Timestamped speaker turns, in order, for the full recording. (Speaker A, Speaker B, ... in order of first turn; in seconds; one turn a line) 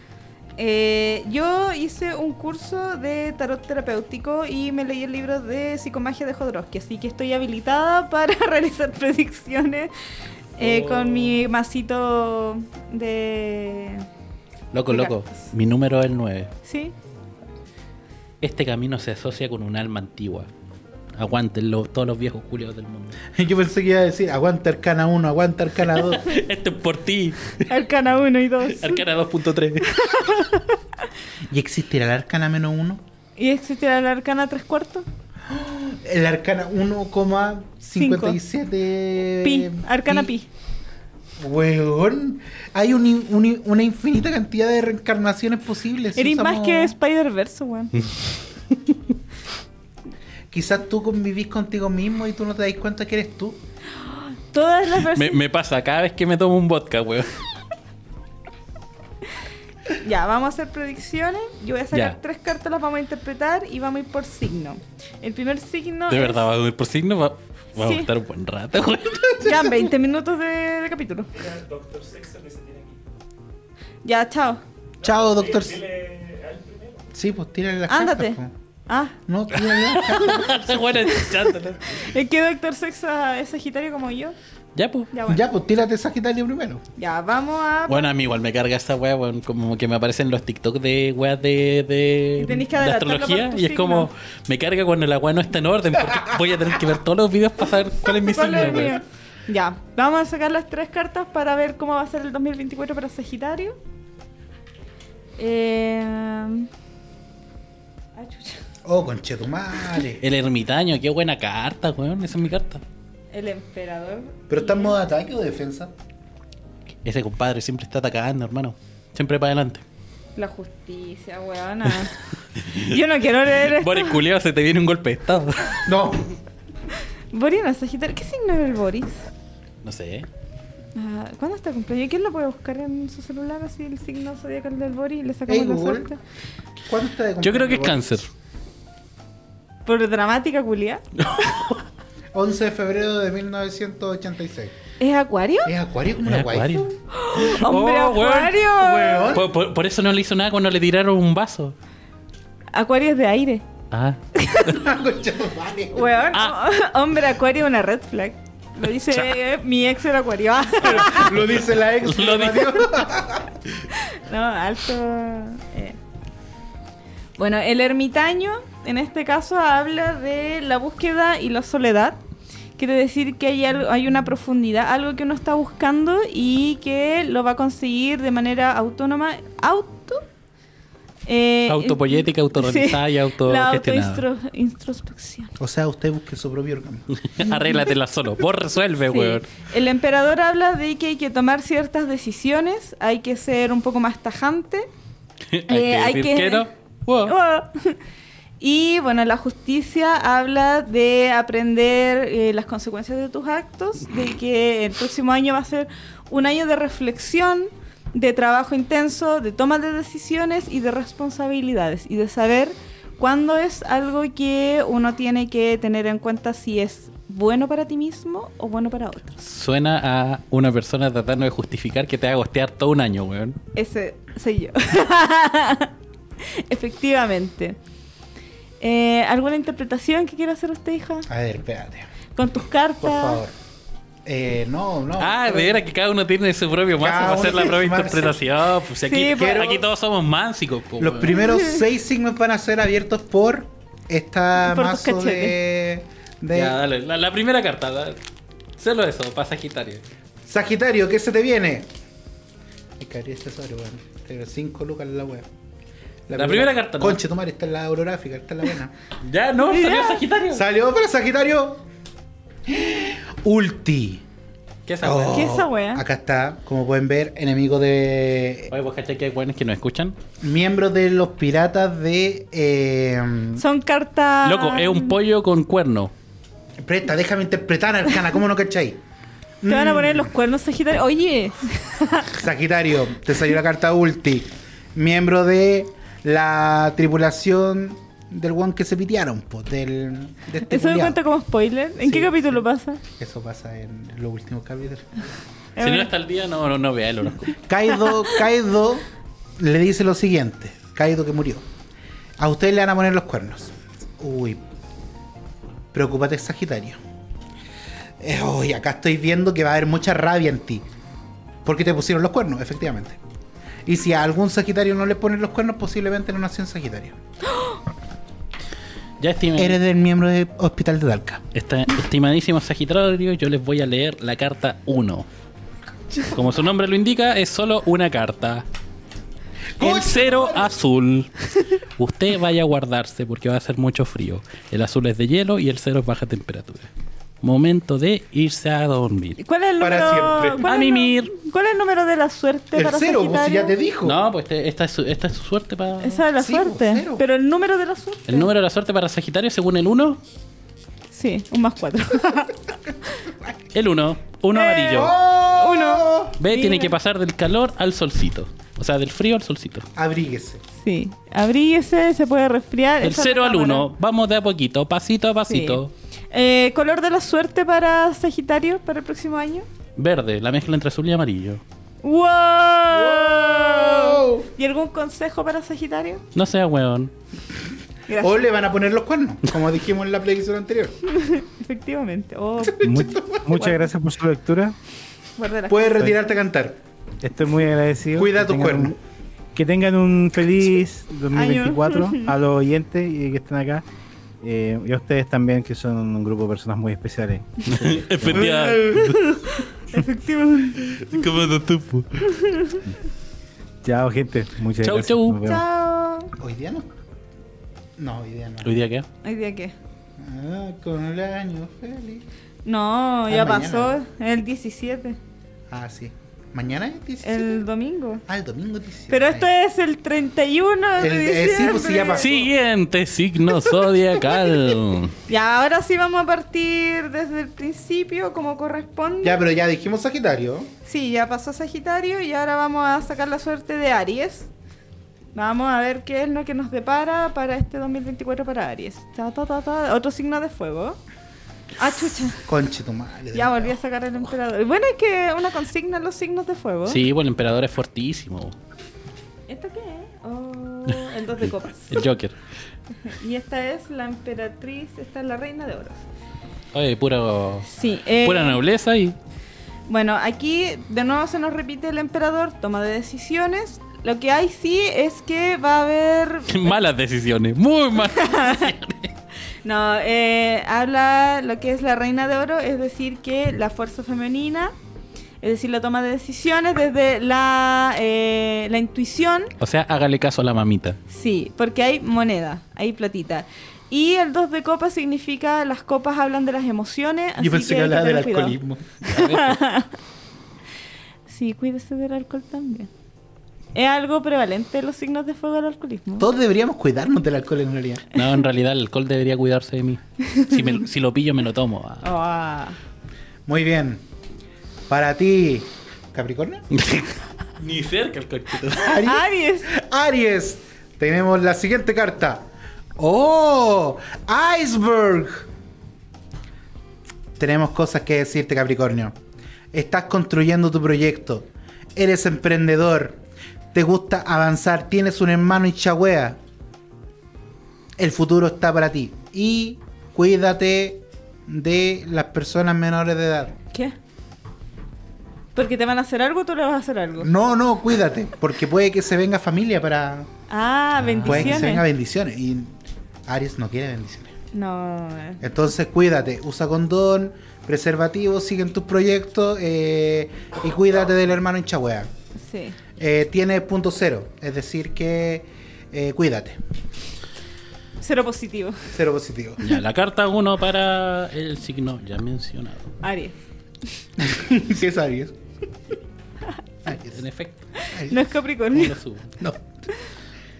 Speaker A: 0.6-9.9
Speaker A: 10.6-14.0
Speaker B: 10.6-11.4
Speaker B: 14.7-16.5
Speaker A: 14.9-15.5
Speaker A: 16.6-16.9
Speaker B: 18.4-20.5
Speaker B: 21.1-23.2
Speaker C: 23.3-26.3
Speaker B: 25.9-27.7
Speaker A: 27.7-29.0
Speaker B: 28.7-29.9
Speaker A: 29.9-30.8
Speaker C: 31.5-33.0
Speaker A: 33.4-35.0
Speaker C: 35.5-40.3
Speaker A: 38.0-38.4
Speaker A: 39.4-40.5
Speaker C: 41.4-46.9
Speaker A: 46.1-47.9
Speaker C: 50.5-53.6
Speaker A: 54.0-55.4
Speaker B: 55.1-57.3
Speaker A: 59.9-66.4
Speaker B: 61.9-62.2
Speaker B: 66.1-69.8
Speaker A: 67.8-68.1
Speaker A: 69.4-71.3
Speaker D: 71.3-73.0
Speaker A: 74.0-74.6
Speaker D: 75.0-77.1
Speaker C: 75.0-75.9
Speaker C: 77.1-78.5
Speaker A: 77.9-79.1
Speaker C: 79.3-81.1
Speaker B: 79.7-82.1
Speaker A: 81.0-84.4
Speaker B: 84.7-85.1
Speaker A: 85.1-85.4
Speaker C: 85.3-86.8
Speaker A: 87.0-88.1
Speaker B: 87.9-99.0
Speaker A: 92.4-94.1
Speaker A: 98.0-103.8
Speaker A: 105.4-106.7
Speaker A: 108.2-108.6
Speaker C: 108.8-110.2
Speaker B: 110.2-112.8
Speaker A: 113.3-115.0
Speaker C: 114.5-115.9
Speaker B: 117.0-119.8
Speaker A: 120.4-122.2
Speaker B: 122.6-123.0
Speaker A: 122.7-124.2
Speaker B: 123.5-125.9
Speaker C: 125.8-126.3
Speaker A: 127.3-129.3
Speaker B: 129.8-130.3
Speaker A: 130.9-136.2
Speaker C: 135.5-136.1
Speaker C: 136.9-138.1
Speaker B: 137.4-138.3
Speaker A: 139.9-141.5
Speaker B: 141.3-141.6
Speaker C: 142.3-144.7
Speaker A: 145.0-145.7
Speaker C: 145.6-146.9
Speaker B: 146.2-148.6
Speaker A: 147.1-149.4
Speaker C: 148.8-149.5
Speaker B: 149.3-151.7
Speaker A: 152.7-153.6
Speaker B: 153.9-154.2
Speaker A: 154.4-154.8
Speaker C: 154.7-156.2
Speaker A: 155.9-161.3
Speaker B: 159.1-159.3
Speaker B: 160.8-163.0
Speaker C: 160.8-163.6
Speaker A: 163.9-166.0
Speaker A: 167.4-172.2
Speaker A: 172.8-180.2
Speaker A: 181.3-185.5
Speaker B: 181.7-184.2
Speaker C: 185.6-187.1
Speaker B: 187.1-189.5
Speaker A: 187.4-187.9
Speaker A: 189.1-194.9
Speaker B: 195.5-197.3
Speaker A: 195.7-196.7
Speaker A: 197.2-198.0
Speaker A: 198.6-219.4
Speaker B: 219.4-223.6
Speaker A: 223.7-227.8
Speaker A: 228.8-231.3
Speaker C: 231.3-232.1
Speaker A: 232.3-233.4
Speaker C: 233.0-233.5
Speaker C: 234.2-235.8
Speaker B: 235.2-241.4
Speaker C: 237.0-238.4
Speaker A: 239.1-239.7
Speaker C: 239.3-239.8
Speaker C: 241.0-246.8
Speaker A: 241.5-241.8
Speaker A: 244.6-245.6
Speaker B: 246.5-248.2
Speaker B: 248.8-250.0
Speaker C: 250.4-251.9
Speaker C: 253.0-255.5
Speaker C: 256.3-258.9
Speaker B: 256.3-257.2
Speaker B: 259.2-260.6
Speaker A: 259.6-260.2
Speaker C: 260.5-261.8
Speaker C: 262.7-264.2
Speaker B: 264.9-265.5
Speaker C: 265.0-268.7
Speaker A: 265.3-266.0
Speaker B: 268.7-270.1
Speaker C: 270.4-273.6
Speaker A: 273.6-275.1
Speaker B: 274.4-276.1
Speaker C: 276.8-279.0
Speaker C: 279.6-280.3
Speaker A: 279.7-282.3
Speaker C: 282.3-291.2
Speaker A: 290.6-293.0
Speaker C: 292.0-292.6
Speaker C: 293.2-295.2
Speaker A: 295.8-296.1
Speaker B: 295.8-297.6
Speaker C: 297.6-299.1
Speaker A: 298.0-298.3
Speaker C: 299.6-301.6
Speaker C: 302.4-304.6
Speaker C: 305.9-307.0
Speaker C: 308.2-310.9
Speaker C: 311.6-313.2
Speaker C: 313.9-317.2
Speaker B: 319.2-319.8
Speaker C: 319.6-321.4
Speaker B: 321.5-325.3
Speaker B: 326.2-328.6
Speaker C: 329.8-330.7
Speaker B: 329.8-336.9
Speaker B: 337.4-339.4
Speaker A: 339.4-343.7
Speaker C: 339.8-340.6
Speaker B: 340.6-341.3
Speaker C: 342.7-344.2
Speaker B: 344.0-346.2
Speaker A: 346.0-348.5
Speaker C: 346.3-347.2
Speaker B: 348.3-350.2
Speaker A: 351.1-352.6
Speaker B: 353.7-355.1
Speaker A: 354.5-356.9
Speaker C: 354.9-356.4
Speaker B: 356.4-359.9
Speaker C: 359.9-360.6
Speaker A: 360.8-363.9
Speaker B: 363.0-365.9
Speaker A: 365.5-369.7
Speaker B: 370.0-371.6
Speaker A: 372.0-376.2
Speaker C: 372.9-374.5
Speaker B: 376.3-377.1
Speaker A: 378.1-378.3
Speaker C: 378.1-381.0
Speaker A: 381.1-382.9
Speaker C: 382.6-383.7
Speaker E: 382.8-384.7
Speaker A: 383.6-383.8
Speaker A: 385.4-386.1
Speaker C: 385.7-386.8
Speaker E: 387.2-388.9
Speaker C: 388.1-388.9
Speaker E: 389.5-393.8
Speaker A: 391.3-392.3
Speaker E: 394.4-398.5
Speaker B: 397.7-399.2
Speaker C: 398.3-399.1
Speaker A: 398.9-401.1
Speaker B: 400.8-402.2
Speaker A: 402.3-402.8
Speaker E: 403.8-405.6
Speaker B: 404.8-405.4
Speaker A: 405.4-406.3
Speaker C: 406.4-406.9
Speaker C: 408.0-408.8
Speaker B: 408.6-409.1
Speaker A: 409.2-409.7
Speaker C: 410.2-412.2
Speaker A: 412.6-415.2
Speaker C: 413.3-414.0
Speaker C: 415.7-417.6
Speaker A: 417.2-418.2
Speaker C: 418.2-419.5
Speaker A: 419.1-422.4
Speaker C: 421.0-422.5
Speaker B: 422.1-425.1
Speaker A: 425.3-429.4
Speaker C: 429.2-430.7
Speaker A: 430.8-434.5
Speaker A: 435.3-441.0
Speaker A: 441.8-442.4
Speaker C: 442.4-443.8
Speaker A: 443.3-447.0
Speaker B: 446.9-448.6
Speaker A: 449.5-452.0
Speaker B: 451.9-452.4
Speaker A: 453.0-456.0
Speaker B: 456.7-457.7
Speaker A: 457.7-458.6
Speaker B: 458.2-459.2
Speaker A: 459.9-466.8
Speaker B: 466.5-469.1
Speaker A: 468.1-468.7
Speaker A: 469.6-474.7
Speaker A: 475.4-479.5
Speaker B: 479.6-481.0
Speaker A: 481.1-489.9
Speaker C: 487.4-488.9
Speaker B: 489.0-489.6
Speaker A: 491.3-492.9
Speaker A: 493.7-496.3
Speaker C: 496.2-498.1
Speaker B: 498.1-502.1
Speaker A: 500.2-500.7
Speaker A: 502.0-502.8
Speaker C: 503.4-504.0
Speaker C: 504.9-506.6
Speaker B: 506.7-509.0
Speaker C: 508.7-515.5
Speaker A: 509.0-509.7
Speaker C: 517.4-519.2
Speaker C: 519.7-523.2
Speaker C: 523.7-526.4
Speaker C: 528.0-533.6
Speaker A: 535.5-537.3
Speaker C: 537.2-540.3
Speaker A: 540.5-541.8
Speaker B: 541.0-541.7
Speaker C: 541.2-542.7
Speaker C: 543.2-544.3
Speaker A: 544.5-545.4
Speaker C: 545.4-552.1
Speaker A: 552.4-552.8
Speaker C: 553.0-556.6
Speaker A: 558.0-558.8
Speaker C: 558.9-559.7
Speaker B: 559.6-562.9
Speaker A: 563.0-563.4
Speaker C: 564.2-565.4
Speaker C: 566.8-567.2
Speaker B: 567.1-567.6
Speaker A: 567.8-569.0
Speaker C: 567.9-568.2
Speaker B: 568.7-569.3